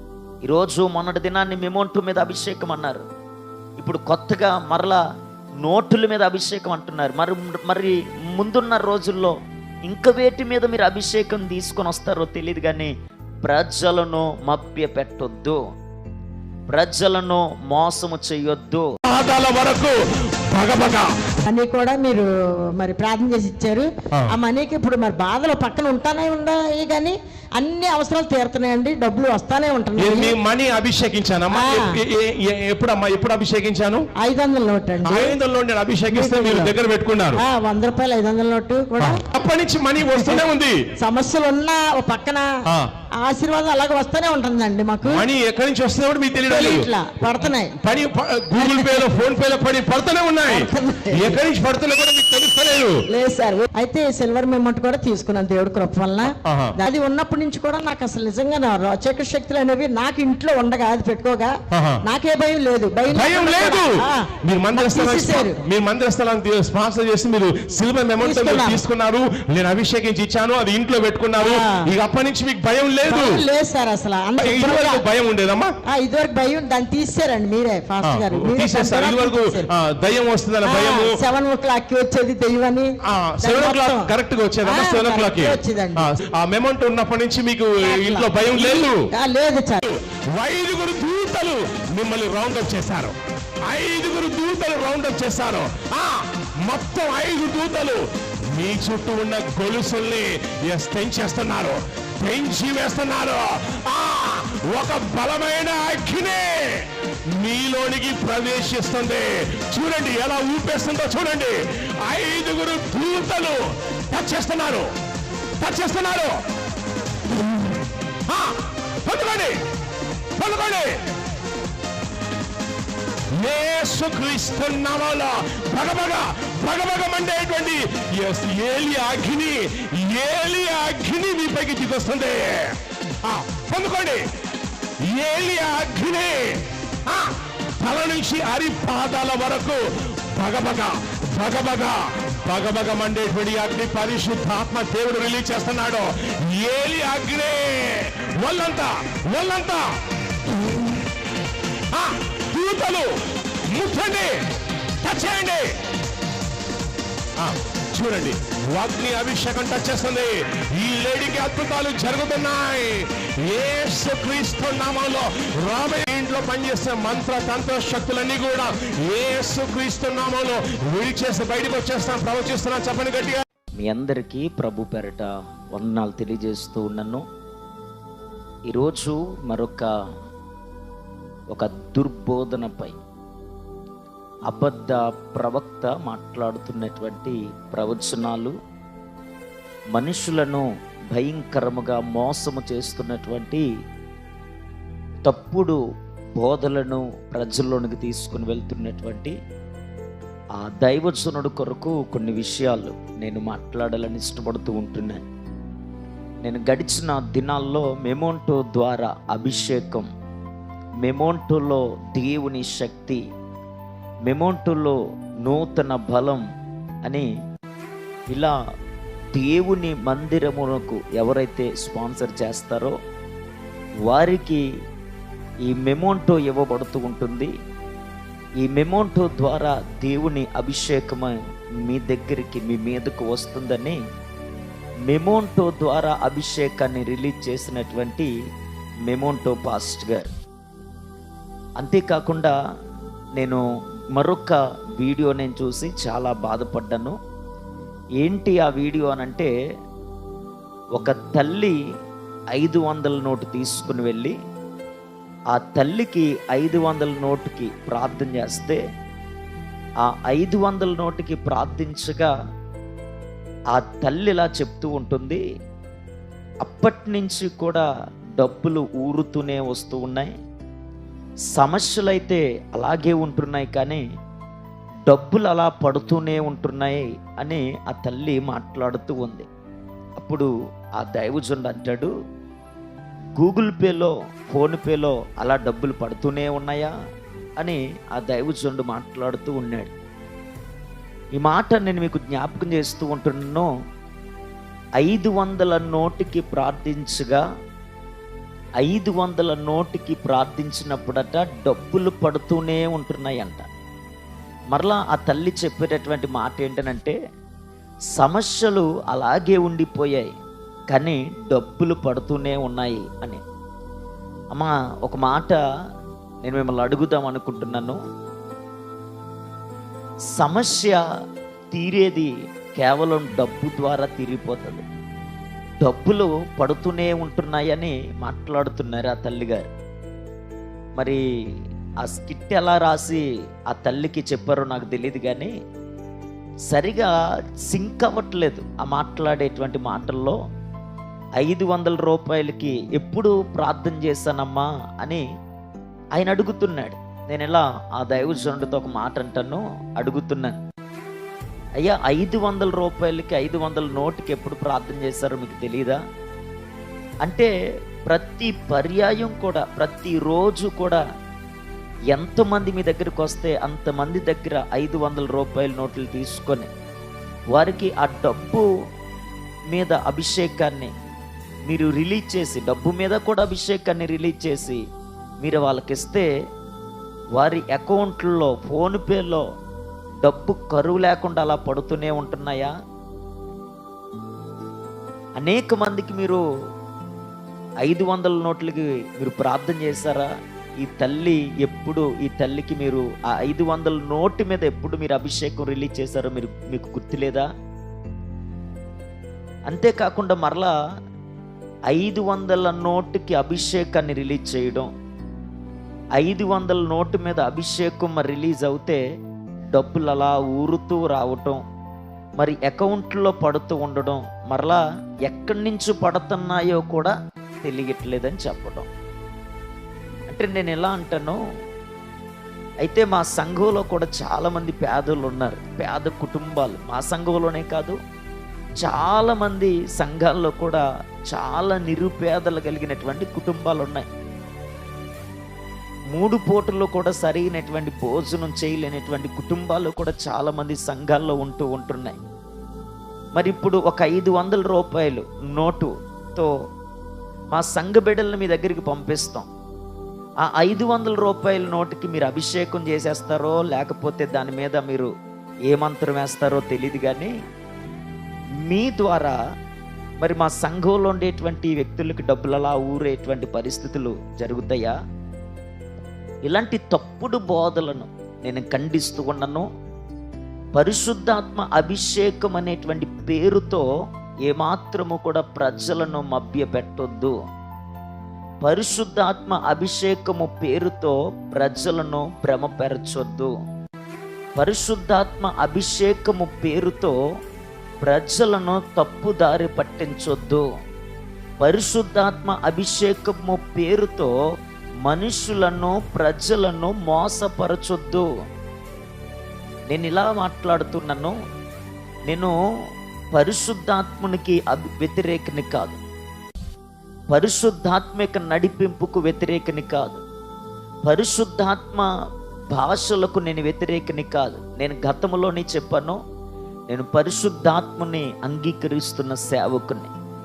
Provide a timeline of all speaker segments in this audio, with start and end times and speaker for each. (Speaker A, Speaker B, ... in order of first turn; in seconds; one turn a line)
Speaker A: 0.5-3.0
Speaker A: 3.8-5.0
Speaker A: 5.6-9.3
Speaker A: 9.9-12.9
Speaker A: 13.4-15.6
Speaker A: 16.7-18.9
Speaker B: 19.1-21.1
Speaker C: 21.4-30.3
Speaker B: 30.0-34.1
Speaker C: 31.6-32.0
Speaker C: 34.2-35.4
Speaker B: 35.0-37.4
Speaker C: 36.1-36.7
Speaker C: 37.4-39.2
Speaker B: 39.0-40.8
Speaker C: 40.1-40.4
Speaker C: 41.0-42.5
Speaker C: 43.2-45.2
Speaker B: 45.0-53.0
Speaker C: 46.5-47.8
Speaker C: 48.6-49.1
Speaker C: 50.5-51.4
Speaker C: 53.1-61.5
Speaker B: 56.3-56.8
Speaker B: 61.7-62.0
Speaker C: 62.0-65.6
Speaker B: 63.1-73.4
Speaker C: 68.2-68.8
Speaker C: 71.4-71.8
Speaker C: 73.1-75.0
Speaker B: 74.4-75.7
Speaker C: 75.9-79.7
Speaker B: 78.0-81.2
Speaker C: 80.6-82.9
Speaker B: 83.1-89.0
Speaker C: 83.4-84.1
Speaker C: 84.7-86.1
Speaker C: 87.8-89.8
Speaker B: 89.8-93.2
Speaker B: 93.7-98.0
Speaker B: 98.5-114.9
Speaker B: 115.6-116.4
Speaker B: 117.4-119.6
Speaker B: 120.4-121.1
Speaker B: 123.3-134.2
Speaker B: 135.0-149.9
Speaker B: 150.5-151.0
Speaker B: 151.9-154.4
Speaker B: 155.0-155.7
Speaker B: 157.4-173.4
Speaker A: 173.8-177.2
Speaker A: 178.7-179.9
Speaker A: 181.5-183.0
Speaker A: 184.5-188.5
Speaker A: 189.9-193.7
Speaker A: 195.3-195.8
Speaker A: 196.4-199.3
Speaker A: 200.6-205.2
Speaker A: 206.4-210.1
Speaker A: 211.0-213.2
Speaker A: 214.3-216.4
Speaker A: 219.3-222.9
Speaker A: 224.1-224.6
Speaker A: 225.7-227.5
Speaker A: 228.6-234.0
Speaker A: 235.1-238.3
Speaker A: 239.1-240.3
Speaker A: 241.8-242.5
Speaker A: 244.1-247.2
Speaker A: 248.2-249.5
Speaker A: 251.0-251.8
Speaker A: 252.5-254.3
Speaker A: 255.5-258.8
Speaker A: 260.1-262.3
Speaker A: 263.7-265.4
Speaker A: 266.6-267.9
Speaker A: 268.4-270.3
Speaker A: 271.5-274.0
Speaker A: 275.1-279.5
Speaker A: 280.2-282.1
Speaker A: 283.4-286.9
Speaker A: 287.6-289.9
Speaker A: 291.4-293.7
Speaker A: 295.0-297.4
Speaker A: 298.8-303.7
Speaker A: 304.7-307.2
Speaker A: 308.2-310.3
Speaker A: 310.9-313.4
Speaker A: 314.5-315.6
Speaker A: 316.4-318.0
Speaker A: 320.4-321.0
Speaker A: 321.7-324.8
Speaker A: 325.8-329.7
Speaker A: 332.0-335.5
Speaker A: 336.7-337.1
Speaker A: 337.7-340.4
Speaker A: 341.4-345.2
Speaker A: 346.2-350.6
Speaker A: 351.8-356.0
Speaker A: 357.2-357.5
Speaker A: 358.1-361.0
Speaker A: 362.1-366.7
Speaker A: 367.5-368.6
Speaker A: 369.7-370.9
Speaker A: 371.7-374.8
Speaker A: 375.4-376.3
Speaker A: 377.4-379.4
Speaker A: 380.2-382.7
Speaker A: 385.4-386.4
Speaker A: 387.8-390.3
Speaker A: 390.8-397.5
Speaker A: 399.7-400.7
Speaker A: 401.9-404.9
Speaker A: 406.2-409.0
Speaker A: 409.7-411.6
Speaker A: 412.4-418.9
Speaker A: 420.3-421.4
Speaker A: 422.8-428.0
Speaker A: 428.8-434.1
Speaker A: 436.1-442.2
Speaker A: 443.4-446.5
Speaker A: 447.5-449.5
Speaker A: 450.5-455.1
Speaker A: 455.7-457.3
Speaker A: 458.7-459.4
Speaker A: 460.2-464.9
Speaker A: 466.5-469.7
Speaker A: 470.8-473.8
Speaker A: 474.5-477.4
Speaker A: 478.6-483.5
Speaker A: 484.6-487.1
Speaker A: 488.0-490.6
Speaker A: 491.6-494.3
Speaker A: 495.0-498.2
Speaker A: 499.9-501.3
Speaker A: 503.4-506.0
Speaker A: 507.3-510.2
Speaker A: 511.1-512.1
Speaker A: 512.7-516.2
Speaker A: 516.9-520.1